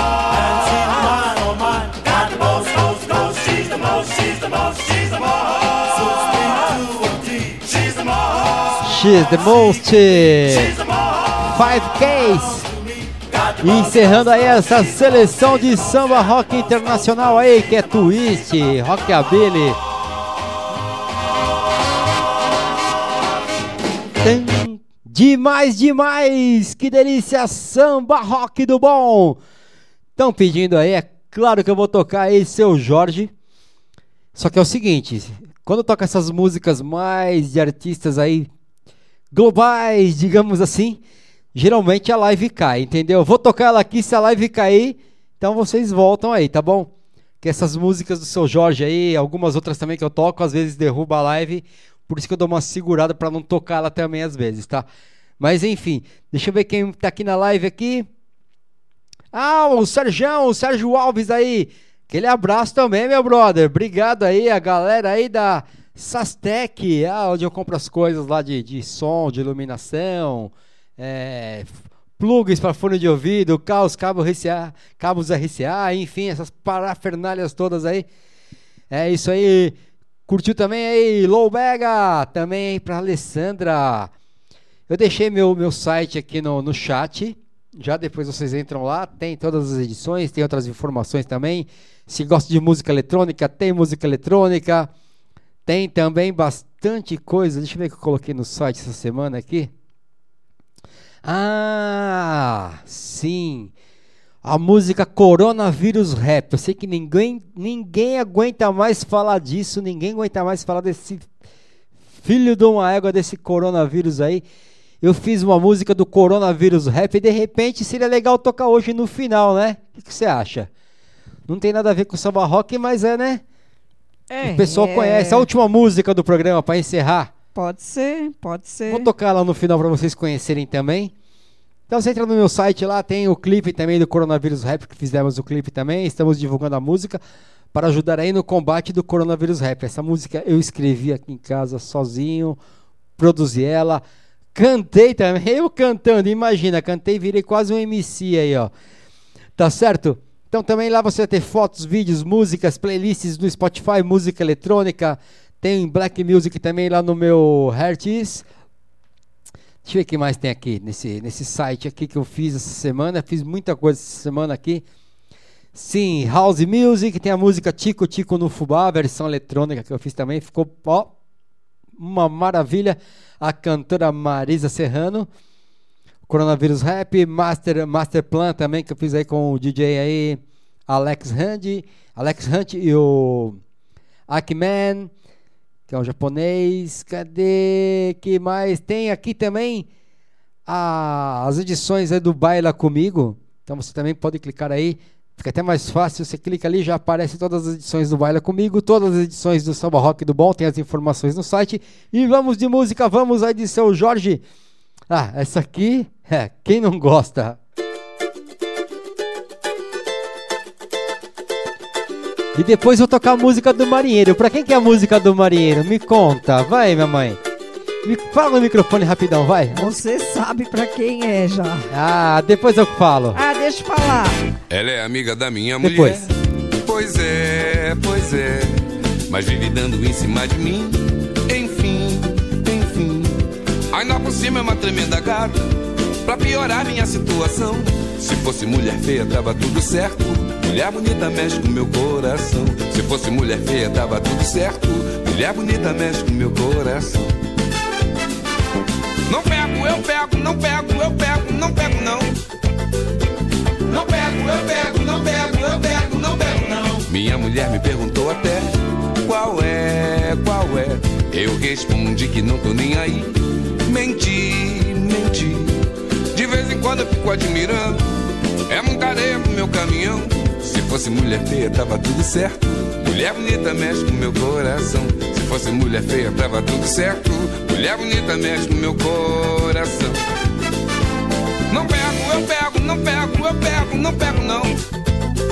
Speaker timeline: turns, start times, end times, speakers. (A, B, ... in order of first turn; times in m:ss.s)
0:08.8-0:10.8 A
0:11.4-0:12.7 A
0:13.6-0:19.8 A
0:24.2-0:29.4 A
0:30.2-0:33.3 A
0:34.4-0:38.5 A
0:39.3-0:41.0 A
0:41.5-0:46.9 A
0:47.4-0:54.9 A
0:55.4-0:58.1 A
0:59.3-1:18.1 A
1:18.9-1:19.8 A
1:20.3-1:24.1 A
1:24.9-1:34.9 A
1:35.7-1:39.7 A
1:41.2-1:43.7 A
1:44.4-1:51.3 A
1:52.2-1:54.4 A
1:55.0-2:00.7 A
2:01.5-2:03.4 A
2:04.3-2:05.5 B
2:04.4-2:07.3 A
2:07.6-2:09.1 B
2:08.9-2:11.1 A
2:11.9-2:17.2 A
2:17.7-2:22.6 A
2:23.2-2:24.0 A
2:24.6-2:28.7 A
2:29.6-2:38.5 A
2:39.8-2:44.8 A
2:45.8-2:51.1 A
2:52.0-2:55.3 A
2:56.3-3:03.6 A
3:04.3-3:05.1 A
3:05.9-3:09.9 A
3:10.7-3:24.4 A
3:25.1-3:27.6 A
3:32.6-3:37.4 A
3:38.0-3:40.0 A
3:39.7-3:41.9 B
3:41.9-3:43.4 A
3:43.3-3:44.4 B
3:44.7-3:46.3 C
3:45.8-3:46.2 A
3:46.8-3:53.4 C
3:53.9-3:55.6 C
3:56.3-4:07.3 C
4:09.3-4:12.4 C
4:13.9-4:23.4 C
4:23.9-4:25.7 C
4:26.3-4:28.0 C
4:28.7-4:40.2 C
4:41.7-4:44.8 C